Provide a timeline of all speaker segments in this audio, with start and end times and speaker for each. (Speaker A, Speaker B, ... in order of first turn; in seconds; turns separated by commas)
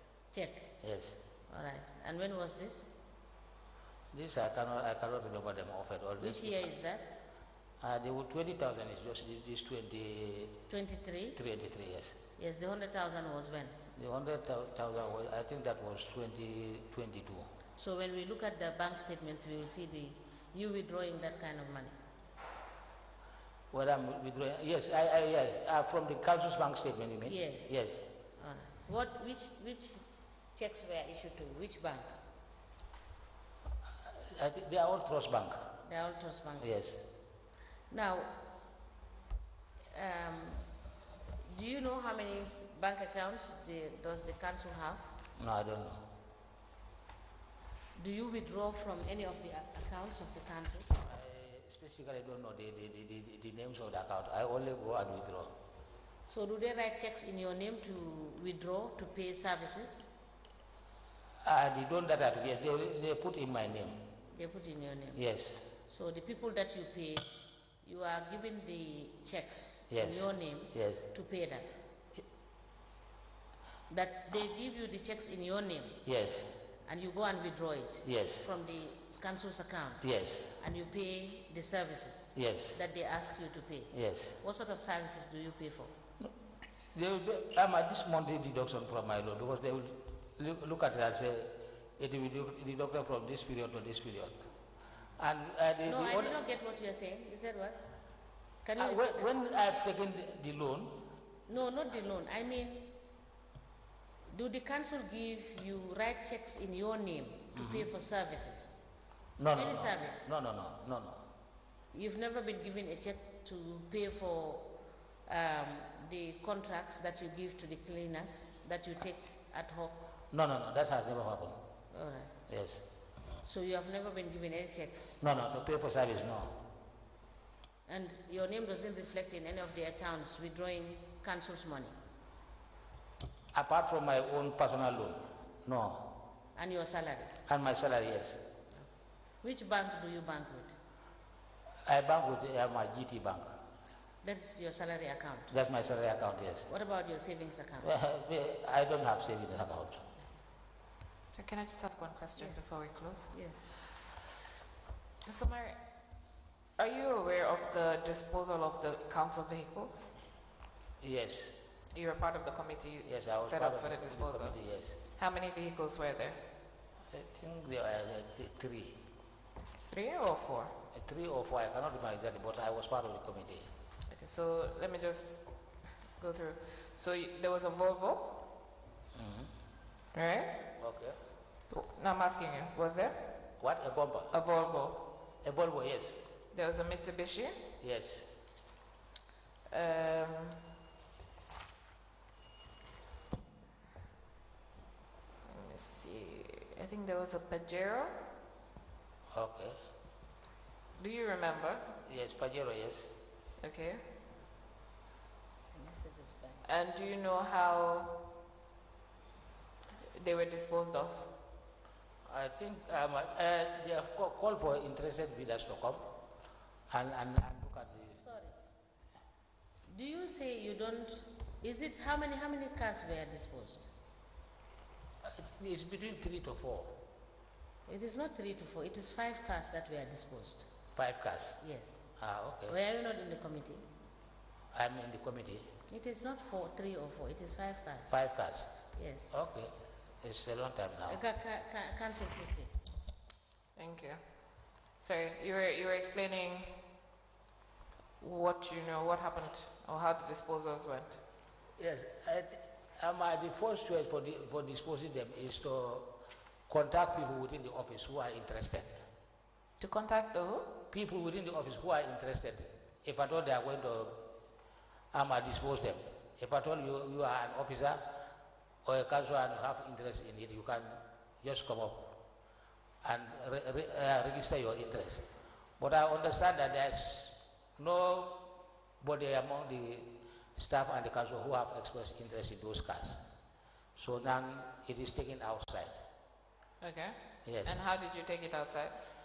Speaker A: 0.3-0.7, Speaker B: 0.8-1.2, Speaker A: 1.5-3.0, Speaker B: 4.1-6.7, Speaker A: 6.2-7.1, Speaker B: 7.8-10.6, Speaker A: 10.7-11.4, Speaker B: 11.3-12.2, Speaker A: 12.4-13.8, Speaker B: 13.9-17.5, Speaker A: 17.8-22.0, Speaker B: 23.7-28.1, Speaker A: 27.3-27.7, Speaker A: 28.4-32.2, Speaker B: 34.3-35.6, Speaker A: 35.8-36.8, Speaker B: 36.6-37.0, Speaker A: 37.9-38.4, Speaker A: 39.9-40.7, Speaker A: 41.4-45.1, Speaker B: 45.4-46.0, Speaker A: 48.0-50.9, Speaker B: 50.9-55.5, Speaker A: 56.2-60.1, Speaker B: 61.4-64.0, Speaker A: 64.3-65.2, Speaker B: 65.2-65.7, Speaker A: 65.8-71.7, Speaker B: 69.9-71.1, Speaker A: 73.9-76.0, Speaker B: 76.0-76.5, Speaker A: 76.9-85.9, Speaker B: 78.0-78.5, Speaker B: 80.0-80.5, Speaker B: 82.3-82.8, Speaker B: 83.9-84.4, Speaker B: 86.9-94.5, Speaker B: 95.2-96.4, Speaker A: 95.8-97.8, Speaker A: 98.6-99.4, Speaker B: 98.8-101.1, Speaker A: 101.5-102.9, Speaker A: 104.3-108.8, Speaker B: 107.5-107.8, Speaker B: 109.4-111.2, Speaker A: 109.5-110.3, Speaker A: 111.9-114.8, Speaker A: 115.2-120.0, Speaker B: 120.3-121.6, Speaker A: 121.9-122.3, Speaker B: 122.5-122.8, Speaker A: 123.4-125.2, Speaker B: 125.2-126.6, Speaker A: 127.9-131.9, Speaker B: 133.5-136.1, Speaker A: 136.5-137.4, Speaker B: 137.5-138.4, Speaker A: 139.4-140.8, Speaker B: 141.8-143.5, Speaker A: 144.2-145.5, Speaker B: 145.5-146.7, Speaker A: 146.7-147.9, Speaker B: 147.8-150.0, Speaker C: 151.3-153.3, Speaker A: 153.2-153.7, Speaker C: 155.2-155.8, Speaker C: 156.8-160.1, Speaker B: 161.0-161.6, Speaker C: 161.9-166.4, Speaker B: 163.0-165.0, Speaker B: 167.1-169.0, Speaker C: 169.9-170.7, Speaker B: 170.9-173.7, Speaker C: 174.1-178.4, Speaker B: 179.1-179.5, Speaker C: 180.1-180.6, Speaker B: 180.8-181.2, Speaker C: 181.7-183.3, Speaker B: 183.6-184.3, Speaker C: 184.3-185.0, Speaker B: 185.4-186.2, Speaker C: 186.5-187.6, Speaker B: 187.8-188.3, Speaker C: 189.7-190.6, Speaker C: 195.4-198.2, Speaker B: 199.3-199.8, Speaker C: 201.0-201.9, Speaker B: 202.1-203.1, Speaker C: 203.6-204.0, Speaker A: 205.7-206.7, Speaker C: 206.7-208.2, Speaker C: 210.1-211.3, Speaker B: 212.2-216.1, Speaker B: 216.9-218.2, Speaker A: 218.1-218.6, Speaker A: 219.9-223.9, Speaker B: 225.2-227.0, Speaker A: 227.9-230.7, Speaker B: 231.0-231.6, Speaker A: 231.6-232.1, Speaker B: 232.2-232.8, Speaker A: 232.7-233.8, Speaker B: 234.7-235.7, Speaker A: 235.9-238.1, Speaker B: 238.1-238.7, Speaker A: 238.9-239.3, Speaker B: 239.3-241.2, Speaker A: 241.1-242.7, Speaker C: 243.8-244.2, Speaker C: 245.0-246.8, Speaker C: 248.2-251.2, Speaker B: 251.8-256.1, Speaker B: 256.7-259.0, Speaker C: 259.8-260.7, Speaker B: 260.9-264.3, Speaker B: 265.1-268.0, Speaker B: 268.8-272.2, Speaker B: 273.0-278.5, Speaker B: 279.0-283.2, Speaker B: 284.0-286.0, Speaker C: 286.8-289.0, Speaker B: 287.4-287.8